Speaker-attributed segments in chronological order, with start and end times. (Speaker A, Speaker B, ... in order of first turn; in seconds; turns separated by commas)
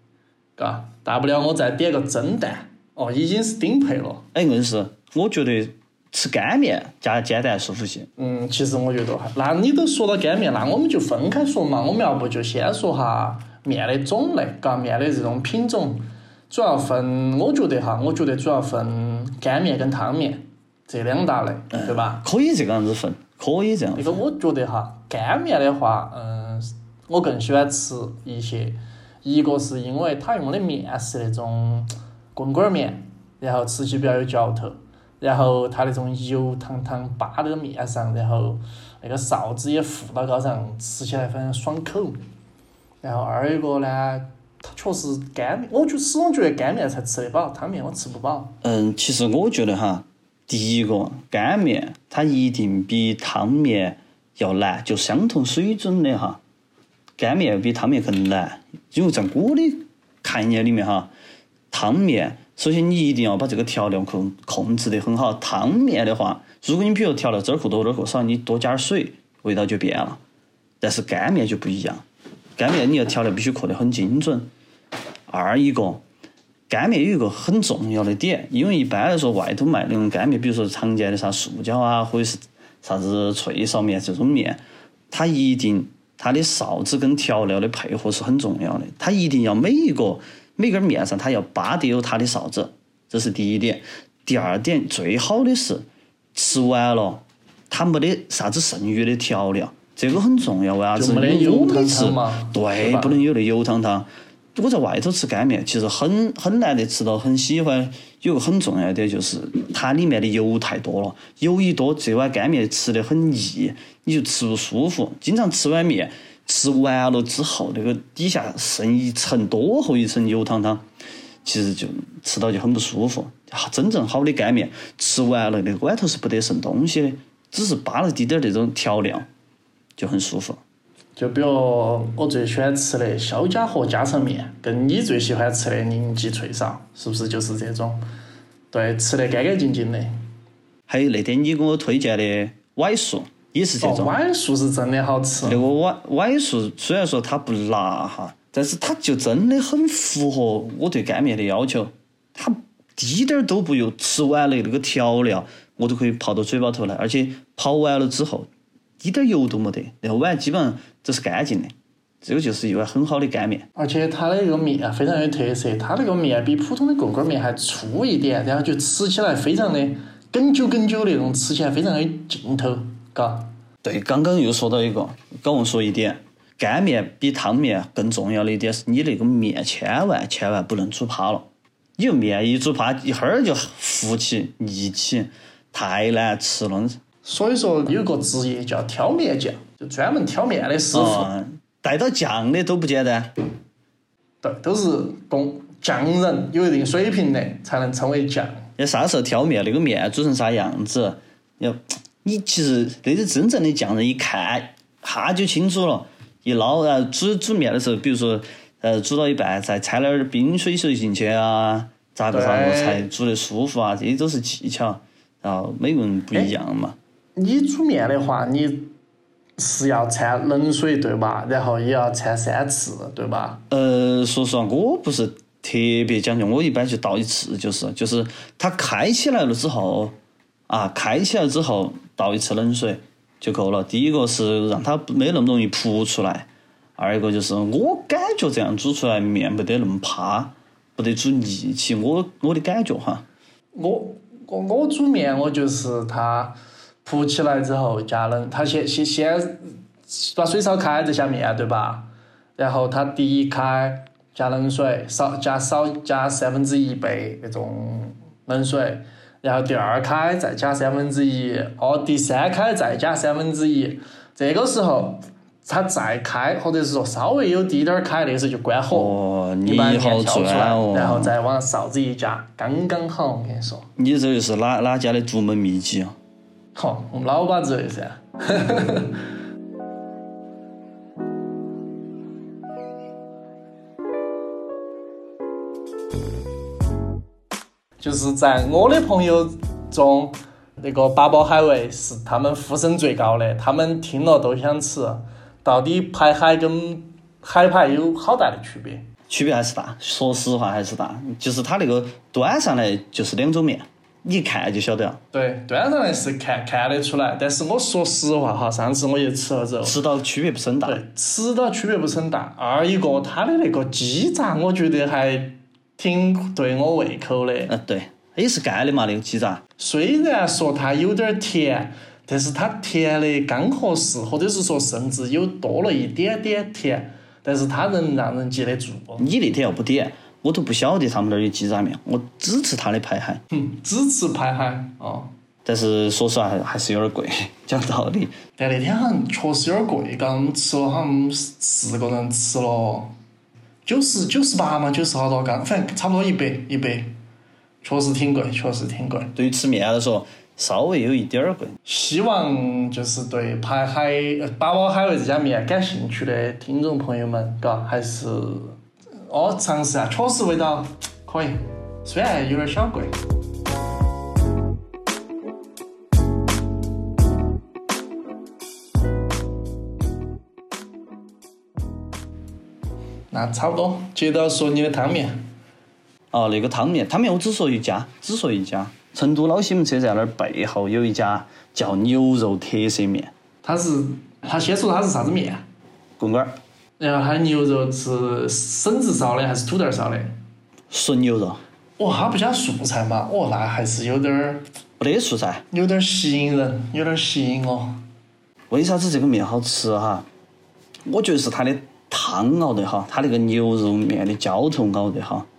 Speaker A: 0.6-4.3, Speaker B: 4.3-8.1, Speaker A: 8.2-22.2, Speaker B: 21.7-24.2, Speaker A: 24.0-42.2, Speaker A: 43.0-48.6, Speaker B: 48.6-56.4, Speaker B: 57.2-61.1, Speaker B: 61.7-70.2, Speaker B: 70.8-72.0, Speaker B: 72.6-74.5, Speaker B: 75.3-76.0, Speaker B: 76.7-84.6, Speaker B: 85.1-120.8, Speaker A: 100.9-103.2, Speaker B: 121.4-129.2, Speaker B: 130.0-130.6, Speaker A: 131.2-138.0, Speaker A: 138.7-140.1, Speaker B: 140.9-144.2, Speaker A: 143.8-145.6, Speaker B: 145.4-158.5, Speaker B: 159.0-163.7, Speaker A: 163.8-173.5, Speaker B: 173.8-187.0, Speaker A: 187.2-191.3, Speaker B: 190.9-193.3, Speaker A: 194.4-198.6, Speaker B: 198.8-217.0, Speaker A: 212.3-213.0, Speaker A: 217.3-218.9, Speaker A: 219.6-223.6, Speaker B: 223.7-230.1, Speaker B: 230.7-243.2, Speaker A: 243.7-273.9, Speaker B: 268.9-271.3, Speaker B: 274.0-276.1, Speaker A: 276.7-279.2, Speaker A: 288.0-299.0, Speaker B: 299.3-305.2, Speaker A: 305.3-310.0, Speaker B: 309.8-311.0, Speaker A: 310.8-317.7, Speaker B: 317.7-319.6, Speaker A: 319.8-329.3, Speaker B: 329.2-333.4, Speaker A: 333.5-335.3, Speaker B: 335.6-338.3, Speaker A: 338.6-343.1, Speaker A: 343.8-347.1, Speaker A: 347.8-349.3, Speaker B: 349.3-351.8, Speaker A: 351.8-358.8, Speaker A: 359.3-363.1, Speaker A: 373.3-375.4, Speaker B: 376.3-383.3, Speaker A: 383.6-385.6, Speaker B: 386.2-386.5, Speaker A: 387.0-390.3, Speaker B: 390.9-391.6, Speaker A: 392.0-394.6, Speaker B: 395.0-395.6, Speaker A: 395.7-398.0, Speaker B: 398.7-400.2, Speaker B: 401.1-405.5